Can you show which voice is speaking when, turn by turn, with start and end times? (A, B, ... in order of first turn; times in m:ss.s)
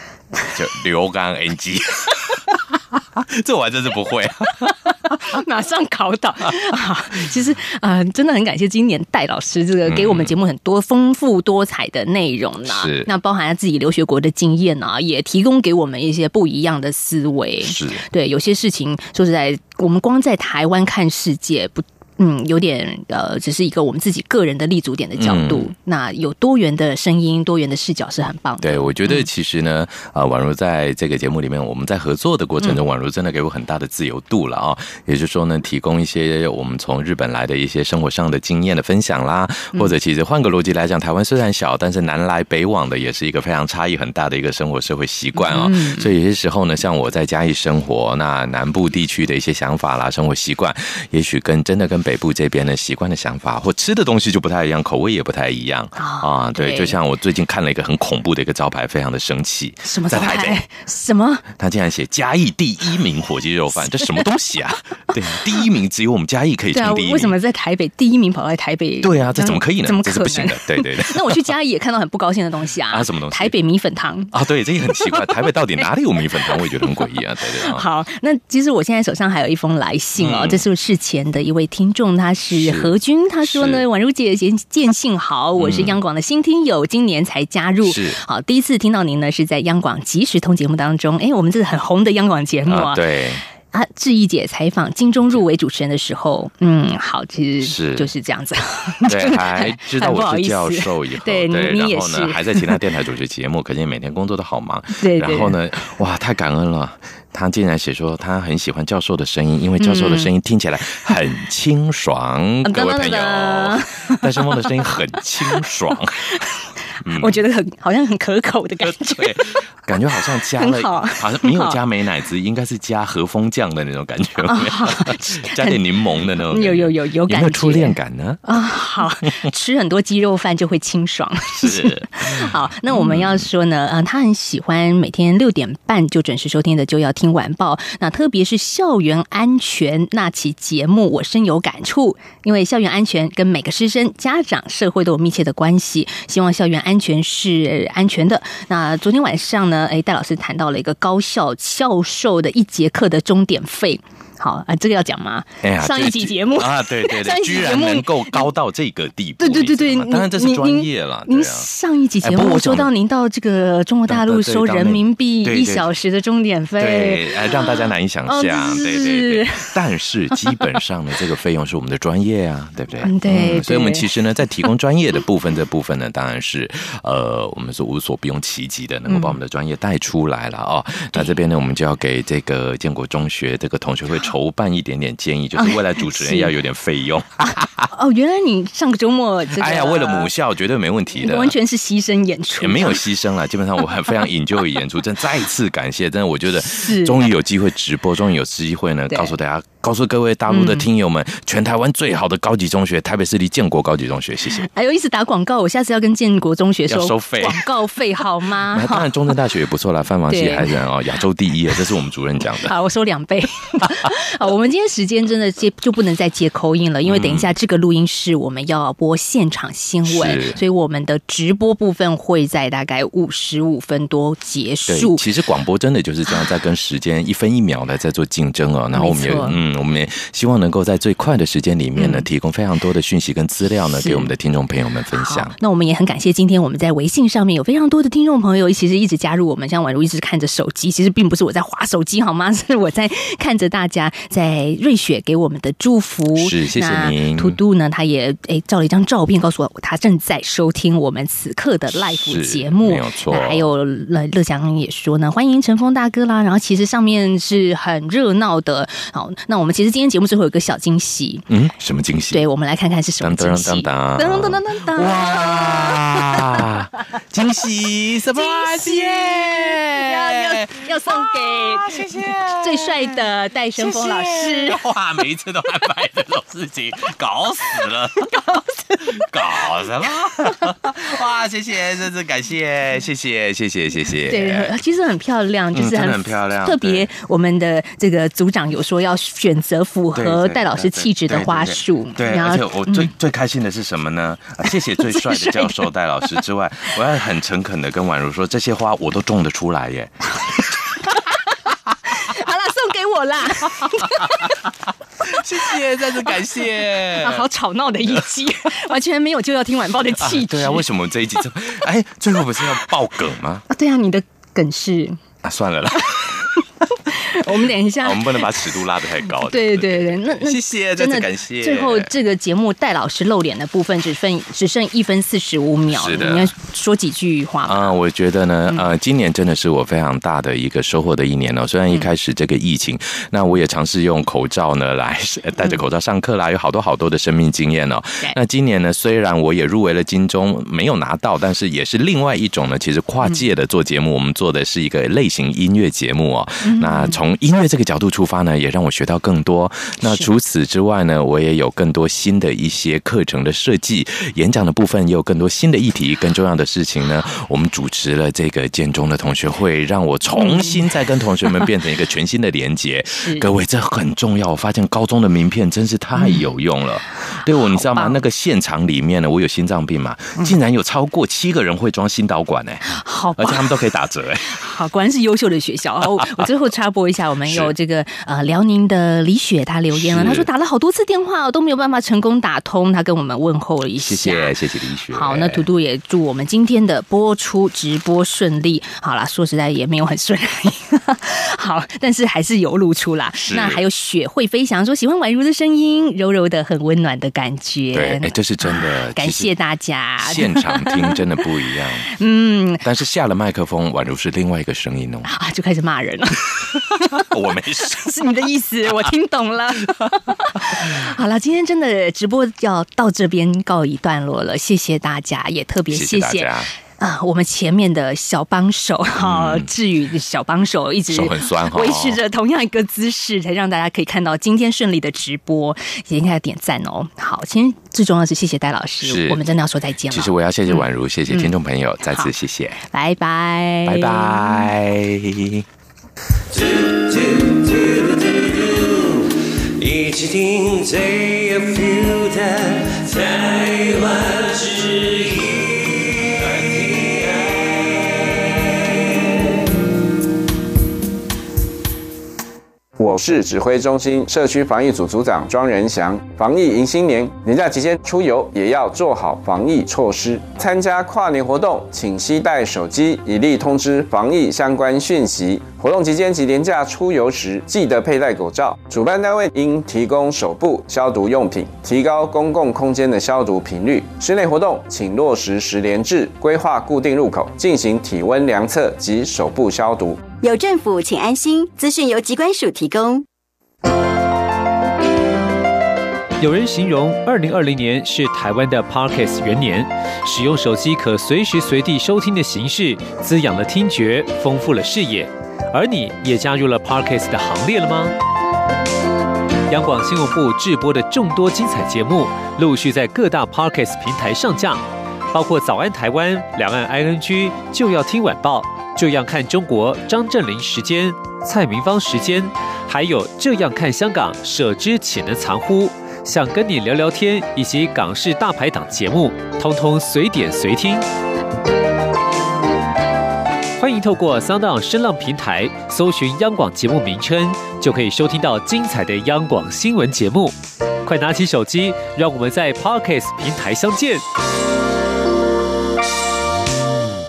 0:00.5-0:05.2 A
0:05.1-0:29.3 B
0:09.9-0:10.3 A
0:12.7-0:13.1 A
0:17.6-0:18.1 A
0:25.2-0:25.7 A
0:28.6-1:00.6 A
0:45.4-0:46.1 B
0:56.0-0:57.0 B
0:59.8-1:01.4 B
1:01.6-1:07.4 A
1:03.9-1:04.2 B
1:06.7-1:14.3 B
1:09.0-1:11.4 A
1:12.9-1:13.6 A
1:14.3-1:17.8 A
1:14.9-1:15.9 B
1:16.4-1:17.0 B
1:17.6-1:33.0 B
1:20.2-1:20.6 A
1:22.6-1:23.8 A
1:25.6-1:26.0 A
1:27.8-1:28.2 A
1:32.7-1:33.4 A
1:33.7-1:42.8 B
1:37.6-1:38.1 A
1:39.1-1:56.2 A
1:45.0-1:45.6 B
1:49.8-1:50.3 B
1:52.6-1:54.9 B
1:55.5-1:55.9 B
1:57.0-1:57.4 A
1:57.1-1:59.6 B
1:58.8-2:08.5 A
2:00.6-2:01.8 B
2:04.4-2:05.8 B
2:06.4-2:38.5 B
2:11.6-2:13.4 A
2:35.6-2:41.7 A
2:39.4-2:49.7 B
2:42.2-2:42.9 A
2:44.1-2:45.9 A
2:46.8-3:07.9 A
2:53.0-2:54.1 B
2:59.1-2:59.4 B
3:05.6-3:06.5 B
3:07.9-3:10.3 B
3:09.5-3:11.6 A
3:11.2-3:13.0 B
3:12.6-3:24.7 A
3:16.6-3:17.2 B
3:20.5-3:20.9 B
3:24.6-3:29.1 B
3:26.9-3:27.6 A
3:28.5-3:32.7 A
3:30.3-3:30.7 B
3:32.6-3:45.2 B
3:37.0-3:37.5 A
3:40.0-3:40.6 A
3:44.9-3:55.6 A
3:48.9-3:49.6 B
3:52.0-3:52.3 B
3:54.0-3:54.3 B
3:55.1-4:21.5 B
4:06.4-4:07.6 A
4:12.2-4:13.7 A
4:21.5-4:22.5 A
4:22.3-4:26.7 B
4:23.2-4:44.7 A
4:28.3-4:34.8 B
4:38.4-4:39.1 B
4:44.3-4:53.1 B
4:45.7-4:47.1 A
4:50.1-5:00.6 A
4:55.0-4:55.8 B
5:02.2-5:04.7 B
5:05.2-5:07.4 A
5:07.1-5:10.9 B
5:10.2-5:13.7 A
5:13.7-5:15.2 B
5:15.4-5:16.5 A
5:17.1-5:18.6 B
5:17.5-5:22.1 A
5:19.4-5:27.9 B
5:25.9-5:26.5 A
5:27.6-6:14.6 A
5:46.6-5:47.2 B
5:50.0-5:50.3 B
6:00.4-6:00.9 B
6:03.1-6:03.5 B
6:06.2-6:06.5 B
6:07.3-6:08.2 B
6:12.9-6:13.7 B
6:14.4-6:24.5 B
6:17.5-6:17.7 A
6:19.9-6:20.5 A
6:24.0-6:25.7 A
6:25.1-6:41.2 B
6:33.4-6:33.8 A
6:37.9-6:39.5 A
6:40.2-6:42.1 A
6:42.2-6:42.8 B
6:42.8-6:45.4 A
6:45.2-6:47.3 B
6:46.8-6:48.3 A
6:47.8-7:11.5 B
6:50.0-6:51.0 A
6:55.9-6:56.7 A
6:59.2-6:59.7 A
7:01.1-7:02.2 A
7:09.0-7:09.4 A
7:10.1-7:12.8 A
7:12.9-7:14.7 B
7:13.8-7:15.6 A
7:16.5-7:29.4 C
7:33.0-8:00.2 D
8:00.4-8:03.2 E
8:06.4-8:18.2 F
8:19.7-8:41.1 F
8:43.8-8:54.2 F